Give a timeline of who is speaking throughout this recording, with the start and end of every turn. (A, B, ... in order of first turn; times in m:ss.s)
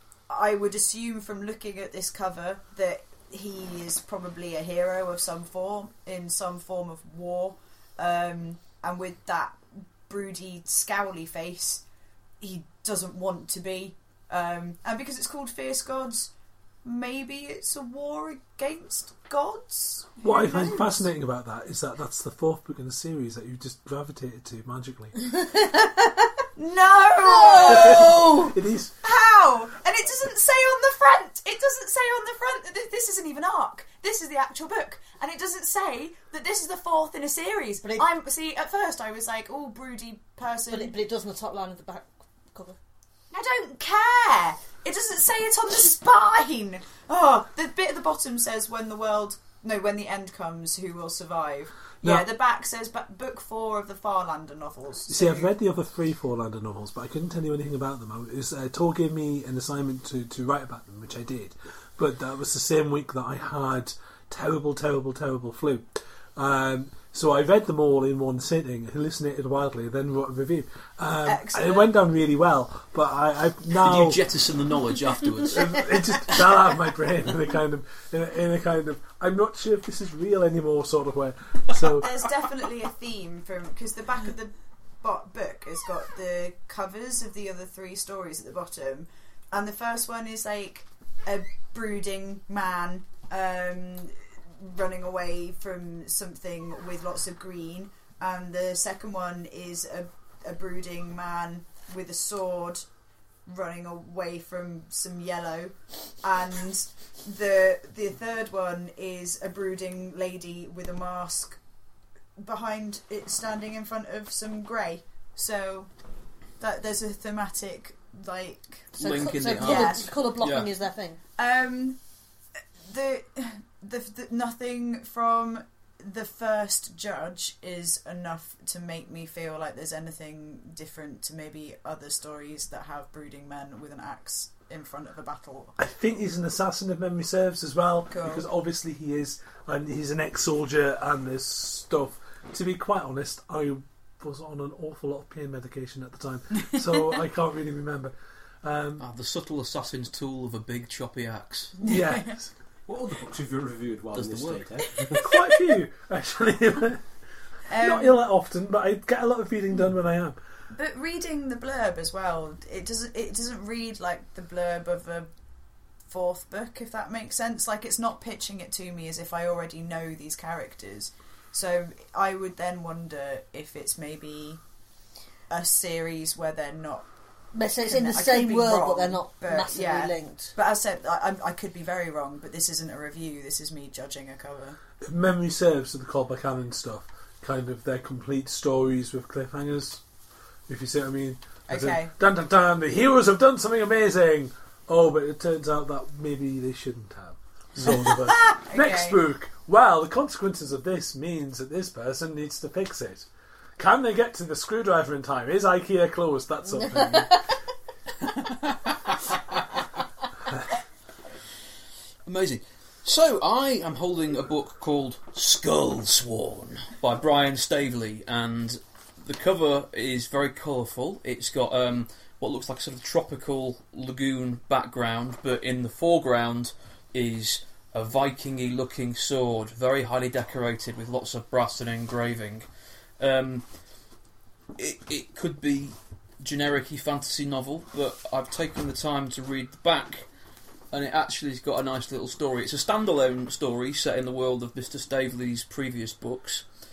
0:00.3-0:11.8 A
0:12.4-0:16.3 A
0:16.8-0:21.0 A
0:20.2-0:25.2 B
0:25.7-0:26.0 C
0:26.6-0:28.4 A
0:27.2-0:28.3 C
0:27.6-0:28.9 B
0:29.0-0:40.9 A
0:40.7-0:42.8 C
0:43.3-0:55.5 A
0:55.1-1:14.2 B
1:11.2-1:11.9 A
1:13.8-1:16.4 D
1:15.4-1:22.2 B
1:22.0-1:42.9 A
1:43.4-1:51.6 A
1:52.4-1:55.9 A
1:56.6-1:58.9 A
1:58.9-2:01.2 C
1:59.0-2:00.7 D
1:59.6-2:00.1 A
2:01.4-2:02.0 A
2:02.8-2:15.8 A
2:15.8-2:29.0 B
2:18.1-2:18.4 A
2:29.0-2:31.8 D
2:31.8-2:32.3 A
2:31.8-2:32.5 B
2:32.9-2:35.3 E
2:34.1-2:34.6 D
2:35.2-2:37.0 B
2:37.7-2:38.2 A
2:37.8-2:40.4 B
2:40.7-2:45.3 A
2:46.1-2:54.6 A
2:55.5-2:57.1 A
2:57.5-3:00.5 C
2:57.8-3:04.8 A
3:05.0-3:10.0 B
3:10.7-3:27.4 B
3:11.7-3:12.1 A
3:17.9-3:19.2 A
3:26.9-3:27.4 C
3:32.2-3:52.6 D
3:53.2-3:53.6 D
3:54.8-4:00.2 D
4:00.9-4:06.7 D